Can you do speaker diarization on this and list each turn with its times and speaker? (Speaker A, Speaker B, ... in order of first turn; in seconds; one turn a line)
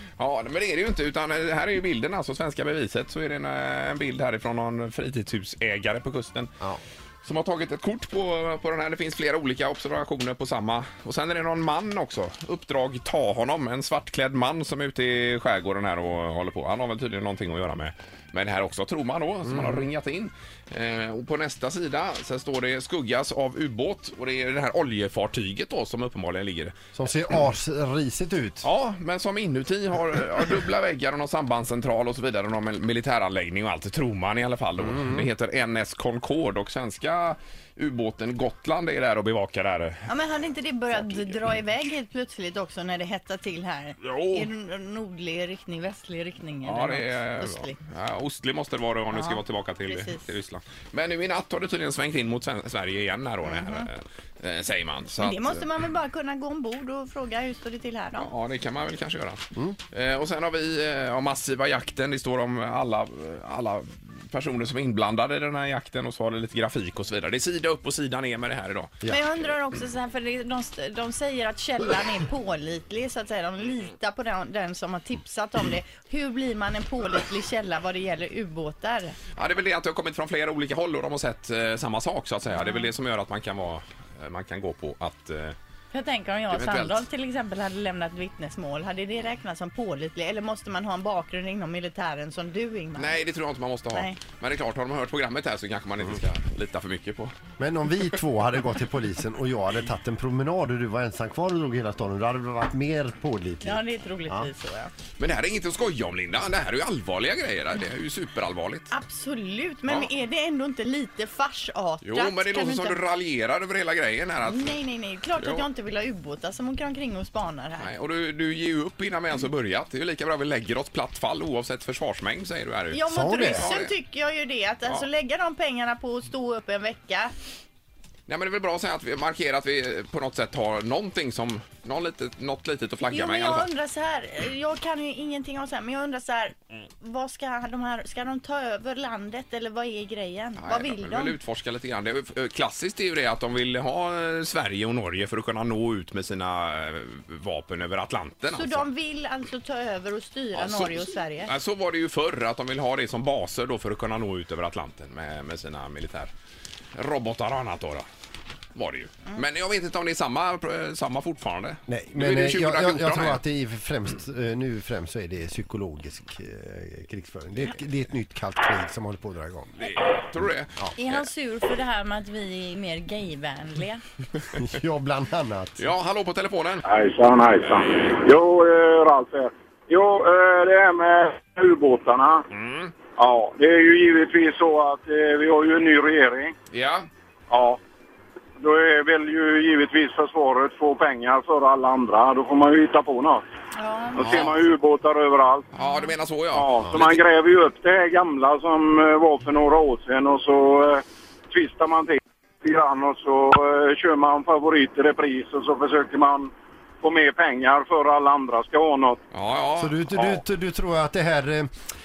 Speaker A: 0.2-6.5
Speaker A: 7.2-26.7
Speaker B: 19.5-19.8
Speaker B: 26.9-28.7
Speaker A: 28.6-40.1
Speaker C: 40.1-47.8
Speaker A: 40.9-41.2
Speaker A: 44.0-44.5
Speaker A: 46.6-55.6
Speaker C: 49.1-50.3
Speaker C: 53.4-53.9
Speaker C: 55.2-58.3
Speaker A: 58.2-68.9
Speaker C: 69.1-79.2
Speaker A: 79.3-85.5
Speaker C: 82.5-82.9
Speaker C: 85.9-93.2
Speaker A: 86.5-87.0
Speaker A: 93.0-97.3
Speaker C: 93.9-94.2
Speaker B: 97.6-104.5
Speaker C: 103.6-104.9
Speaker A: 105.2-108.9
Speaker C: 108.9-113.0
Speaker A: 112.0-114.8
Speaker C: 114.5-117.9
Speaker A: 115.4-115.6
Speaker A: 117.8-123.9
Speaker C: 122.9-127.3
Speaker B: 123.1-123.7
Speaker A: 128.3-133.7
Speaker C: 133.0-141.4
Speaker A: 140.6-148.8
Speaker C: 148.5-151.5
Speaker A: 150.5-156.3
Speaker A: 156.9-158.0
Speaker A: 158.7-163.4
Speaker B: 161.9-169.8
Speaker A: 169.8-171.2
Speaker C: 171.0-174.0
Speaker B: 174.5-175.8
Speaker A: 175.8-176.8
Speaker D: 176.8-182.4
Speaker A: 182.5-182.9
Speaker D: 183.2-186.5
Speaker A: 186.7-187.1
Speaker D: 187.5-187.8
Speaker D: 188.6-193.4
Speaker C: 193.7-194.5
Speaker D: 194.2-195.7
Speaker A: 194.2-194.5
Speaker A: 195.7-197.2
Speaker C: 195.8-196.1
Speaker D: 196.5-206.5
Speaker D: 207.0-209.2
Speaker A: 209.3-210.4
Speaker B: 209.8-211.7